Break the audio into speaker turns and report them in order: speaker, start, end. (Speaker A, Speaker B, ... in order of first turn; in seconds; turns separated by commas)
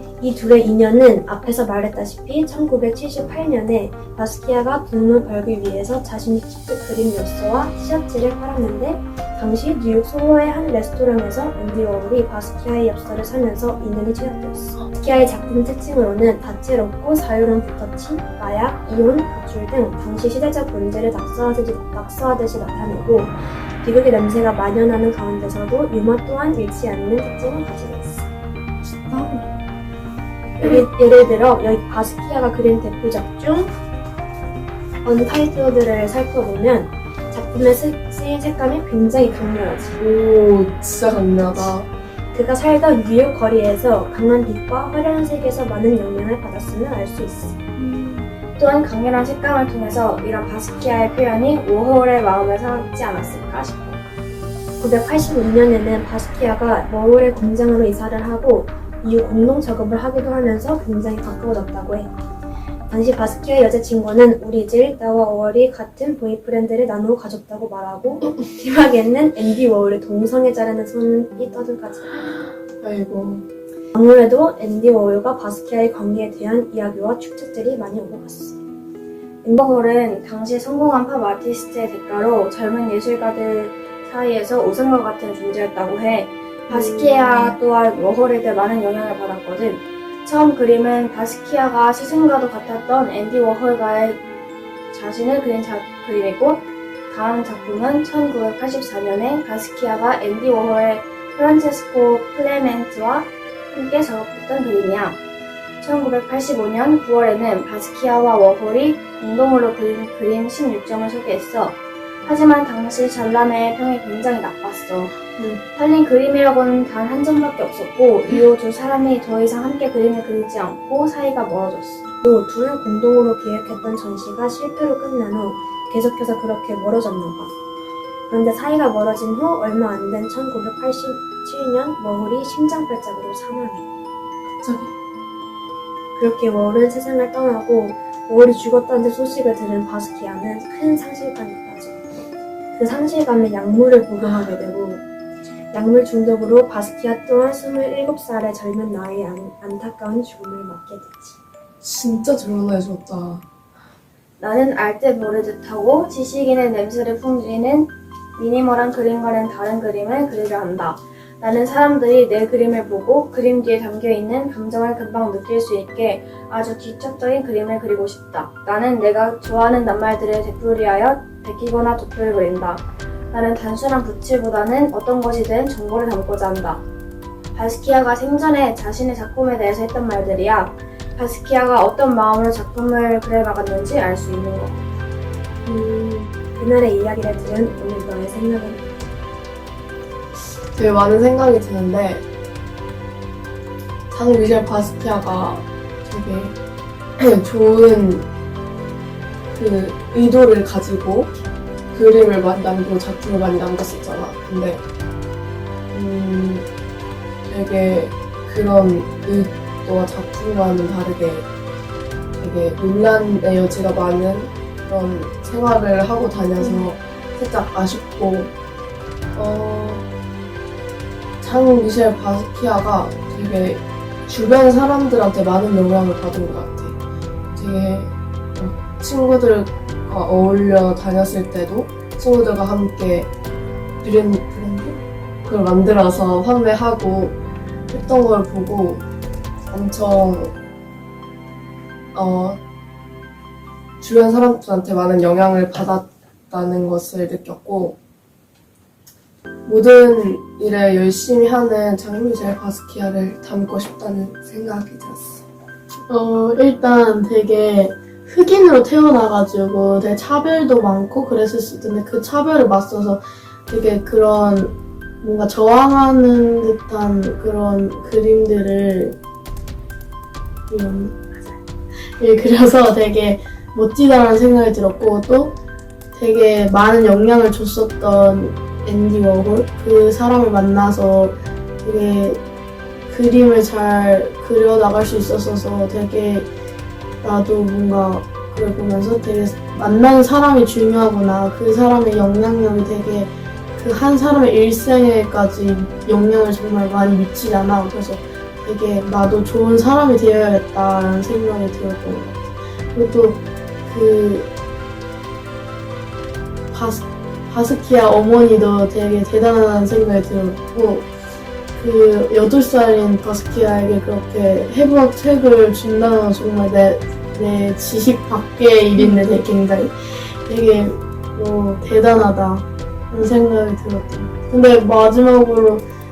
Speaker A: 0.2-28.3, Speaker B: 28.8-29.5, Speaker A: 30.6-33.7, Speaker A: 35.0-40.0, Speaker B: 40.0-41.9, Speaker A: 42.3-47.6, Speaker C: 47.8-54.0, Speaker A: 54.8-62.1, Speaker A: 62.9-72.2, Speaker B: 72.8-73.4, Speaker A: 73.9-78.6, Speaker C: 79.5-94.2, Speaker D: 86.7-87.5, Speaker C: 94.9-105.2, Speaker C: 105.8-115.2, Speaker C: 115.7-122.0, Speaker A: 122.2-127.5, Speaker A: 128.3-133.9, Speaker B: 134.6-134.9, Speaker A: 136.2-142.0, Speaker A: 142.7-145.0, Speaker A: 145.7-151.4, Speaker B: 151.8-153.4, Speaker C: 154.4-176.8, Speaker C: 177.5-184.8, Speaker A: 186.5-189.1, Speaker B: 190.7-192.3, Speaker B: 194.1-196.6, Speaker B: 197.2-198.3, Speaker B: 199.6-201.3, Speaker B: 201.9-204.8, Speaker B: 205.9-206.7, Speaker B: 207.4-211.5, Speaker B: 212.4-218.5, Speaker B: 219.3-220.1, Speaker B: 221.4-227.0, Speaker B: 227.6-233.3, Speaker B: 234.0-237.4, Speaker B: 237.9-239.0, Speaker B: 239.7-240.5, Speaker B: 242.1-242.6, Speaker B: 244.0-247.9, Speaker B: 249.7-255.4, Speaker D: 256.1-269.2, Speaker D: 270.7-271.2, Speaker D: 272.2-275.6, Speaker D: 276.1-282.4, Speaker D: 283.1-286.5, Speaker D: 287.2-304.5, Speaker D: 306.7-311.1, Speaker D: 311.8-325.8